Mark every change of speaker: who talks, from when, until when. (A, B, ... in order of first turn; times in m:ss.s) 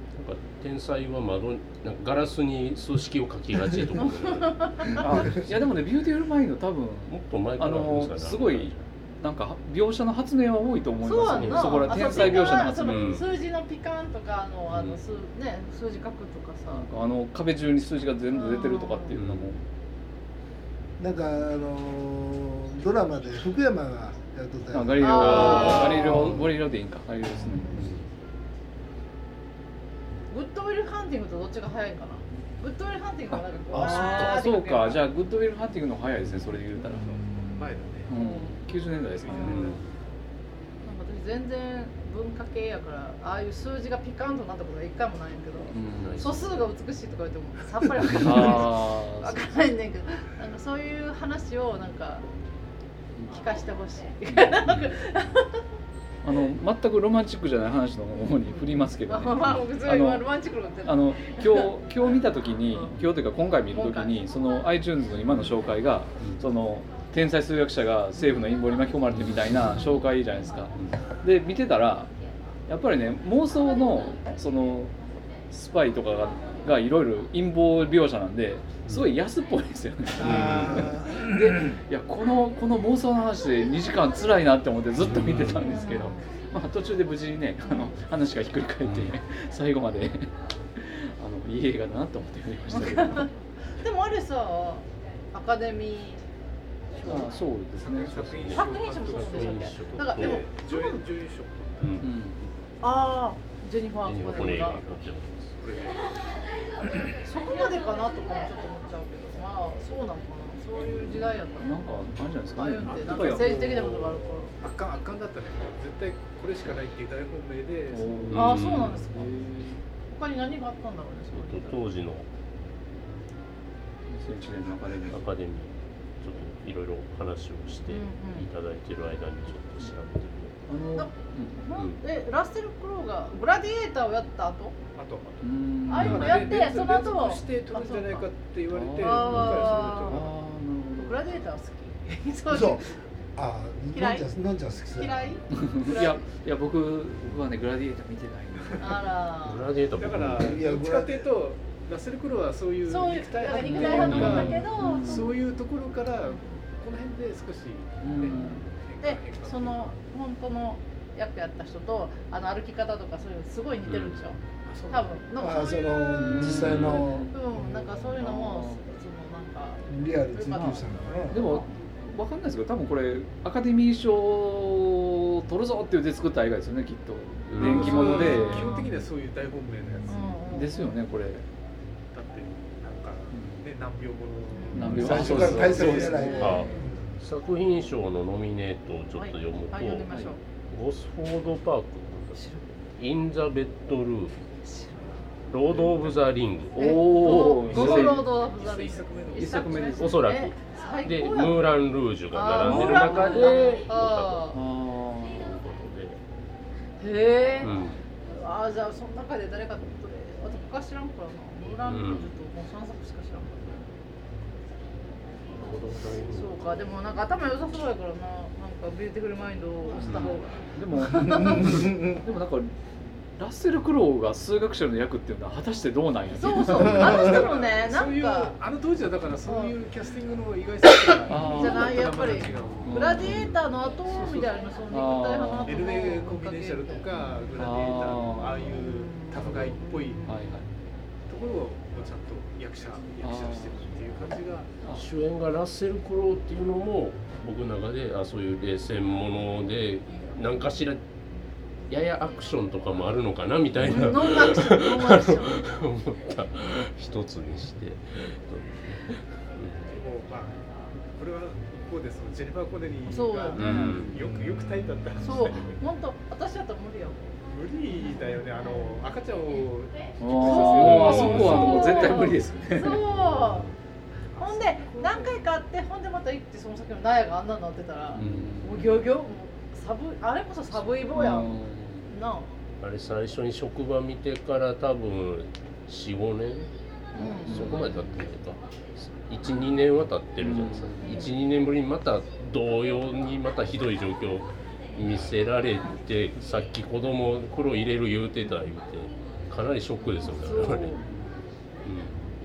0:00.1-0:05.5 A
0:04.0-0:05.1 B
0:04.9-0:13.2 C
0:07.1-0:08.8 A
0:11.0-0:16.9 B
0:11.3-0:13.3 A
0:14.7-0:15.0 A
0:16.7-0:19.6 C
0:18.3-0:19.1 B
0:19.1-0:19.6 A
0:21.0-0:26.4 D
0:24.7-0:27.9 C
0:25.0-0:26.2 B
0:25.1-0:26.4 A
0:27.6-0:27.9 B
0:27.7-0:28.0 A
0:30.3-0:35.0 B
0:33.3-0:37.2 C
0:33.8-0:34.3 A
0:37.2-0:37.6 D
0:37.6-0:38.1 E
0:38.1-0:39.8 C
0:38.1-0:38.5 B
0:39.2-0:39.8 E
0:39.3-0:39.8 B
0:39.3-0:39.8 A
0:40.8-0:52.3 B
0:45.7-0:46.2 C
0:46.0-0:46.6 A
0:48.1-0:49.4 C
0:53.3-0:55.6 B
0:54.3-0:54.7 C
0:54.7-0:54.9 A
0:56.2-1:00.2 C
0:58.4-1:01.7 B
1:00.8-1:12.1 C
1:02.7-1:03.0 B
1:03.7-1:04.1 B
1:12.7-1:14.9 C
1:15.5-1:33.3 C
1:20.2-1:21.8 D
1:20.2-1:20.9 A
1:25.1-1:25.6 A
1:25.6-1:26.2 B
1:27.6-1:27.9 B
1:28.8-1:29.1 A
1:32.7-1:33.3 B
1:33.8-1:36.2 B
1:37.0-1:38.5 C
1:37.7-1:42.1 E
1:38.4-1:40.4 A
1:38.5-1:41.0 B
1:41.8-1:42.1 A
1:42.0-1:42.4 C
1:42.8-1:44.8 B
1:44.0-1:45.6 A
1:45.6-1:46.1 E
1:47.1-1:51.8 B
1:51.6-1:53.7 C
1:52.5-1:54.5 B
1:52.8-1:58.4 E
1:57.9-1:59.8 C
1:58.3-1:59.0 A
1:58.3-1:59.4 B
2:00.0-2:01.8 B
2:01.3-2:02.3 A
2:04.1-2:05.2 C
2:05.1-2:10.6 A
2:07.9-2:08.5 B
2:10.7-2:11.6 C
2:11.0-2:14.8 B
2:11.7-2:12.0 A
2:14.9-2:20.4 E
2:15.4-2:16.6 C
2:15.9-2:18.2 B
2:18.7-2:21.2 C
2:19.0-2:20.2 B
2:21.0-2:22.9 B
2:22.5-2:25.4 D
2:23.9-2:24.3 B
2:24.8-2:26.2 B
2:25.5-2:29.0 C
2:28.8-2:29.6 B
2:29.4-2:30.4 A
2:30.0-2:40.0 E
2:30.4-2:31.2 D
2:32.9-2:35.4 B
2:33.6-2:35.3 C
2:34.1-2:34.5 A
2:36.3-2:36.6 B
2:38.0-2:38.6 C
2:38.3-2:46.6 B
2:43.8-2:44.2 A
2:44.6-2:45.1 E
2:45.4-2:48.0 D
2:46.1-2:47.4 C
2:46.5-2:47.0 A
2:47.2-2:51.7 B
2:48.1-2:48.8 C
2:49.9-2:51.5 D
2:50.5-2:50.8 C
2:51.3-2:58.7 C
2:57.5-2:58.2 A
2:57.6-3:00.4 E
2:57.9-2:59.0 B
3:00.1-3:01.0 B
3:00.5-3:01.4 C
3:02.1-3:06.6 E
3:03.3-3:03.6 C
3:04.5-3:05.2 B
3:04.7-3:06.6 C
3:04.9-3:06.9 D
3:06.0-3:06.8 B
3:06.4-3:10.1 A
3:09.2-3:10.4 B
3:10.1-3:10.4 C
3:10.7-3:14.3 A
3:15.5-3:17.2 A
3:16.7-3:18.3 C
3:16.8-3:21.7 B
3:17.2-3:19.9 E
3:19.3-3:20.2 C
3:20.0-3:24.6 A
3:22.3-3:24.6 B
3:22.6-3:23.6 C
3:24.5-3:25.6 C
3:25.2-3:26.2 A
3:27.0-3:33.8 B
3:27.6-3:28.0 A
3:31.8-3:32.3 A
3:35.5-3:36.8 A
3:36.3-3:41.9 B
3:40.0-3:40.3 A
3:40.0-3:42.7 C
3:41.0-3:42.2 D
3:43.4-3:47.1 C
3:46.3-3:48.6 B
3:46.8-3:53.2 E
3:46.9-3:47.5 D
3:49.4-3:49.7 B
3:51.3-3:52.1 C
3:51.4-3:57.2 B
3:52.8-3:53.6 C
3:54.1-3:54.6 E
3:54.9-3:55.9 C
3:55.6-4:00.3 E
3:57.6-3:58.8 C
3:58.8-4:00.4 B
4:00.2-4:00.6 C
4:01.3-4:04.7 E
4:03.2-4:03.8 C
4:04.9-4:11.0 A
4:11.9-4:19.9 A
4:13.8-4:15.7 B
4:19.9-4:20.6 E
4:21.1-4:25.8 E
4:23.0-4:24.0 B
4:23.5-4:24.2 A
4:23.6-4:24.2 C
4:25.2-4:27.3 B
4:27.4-4:32.4 E
4:30.2-4:33.0 C
4:30.4-4:33.7 B
4:30.8-4:31.7 A
4:33.1-4:33.7 A
4:34.3-4:35.4 E
4:34.4-4:41.6 B
4:38.1-4:38.9 C
4:38.2-4:38.5 A
4:41.1-4:42.1 C
4:42.1-4:42.5 B
4:42.8-4:46.7 A
4:47.1-4:48.0 B
4:47.2-4:48.2 C
4:47.3-4:48.6 A
4:49.2-5:01.0 A
4:50.4-4:51.3 C
4:51.0-4:51.3 B
5:00.2-5:01.0 B
5:01.8-5:02.2 A